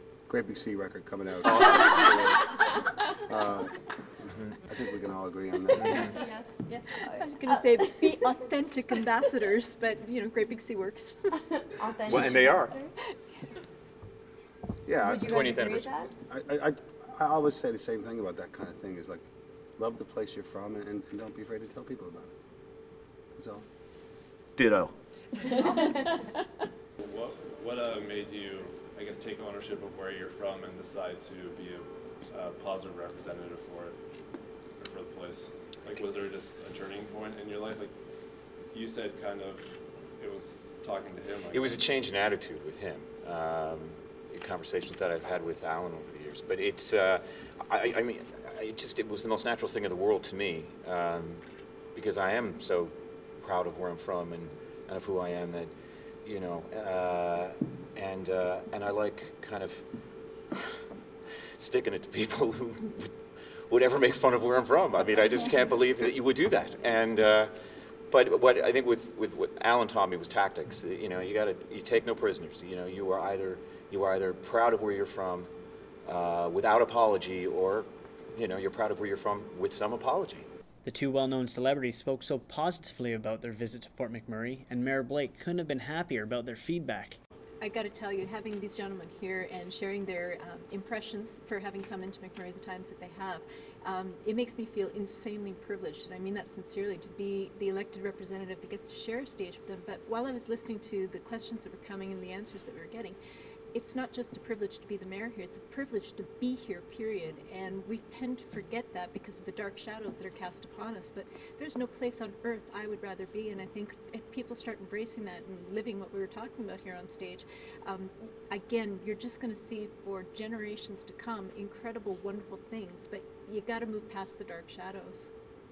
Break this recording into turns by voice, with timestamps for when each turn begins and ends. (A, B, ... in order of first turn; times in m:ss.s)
0:00.3-0:02.6 A
0:03.2-0:03.7 A
0:04.6-0:06.2 A
0:05.8-0:06.2 B
0:06.0-0:07.9 C
0:07.2-0:11.4 D
0:11.7-0:12.9 C
0:12.0-0:12.8 B
0:14.8-0:15.7 A
0:15.0-0:16.1 C
0:15.2-0:16.0 B
0:16.3-0:19.2 A
0:19.8-0:22.3 A
0:23.4-0:23.6 A
0:24.6-0:24.9 B
0:25.6-0:26.1 C
0:27.0-0:34.0 E
0:34.8-0:38.0 E
0:38.6-0:41.8 E
0:41.5-0:51.4 B
0:51.9-0:55.7 B
0:56.2-0:59.8 B
1:01.6-1:03.2 B
1:03.7-1:07.5 B
1:08.1-1:15.5 B
1:16.1-1:20.5 B
1:20.8-1:27.2 F
1:27.6-1:43.2 D
1:43.7-2:05.3 D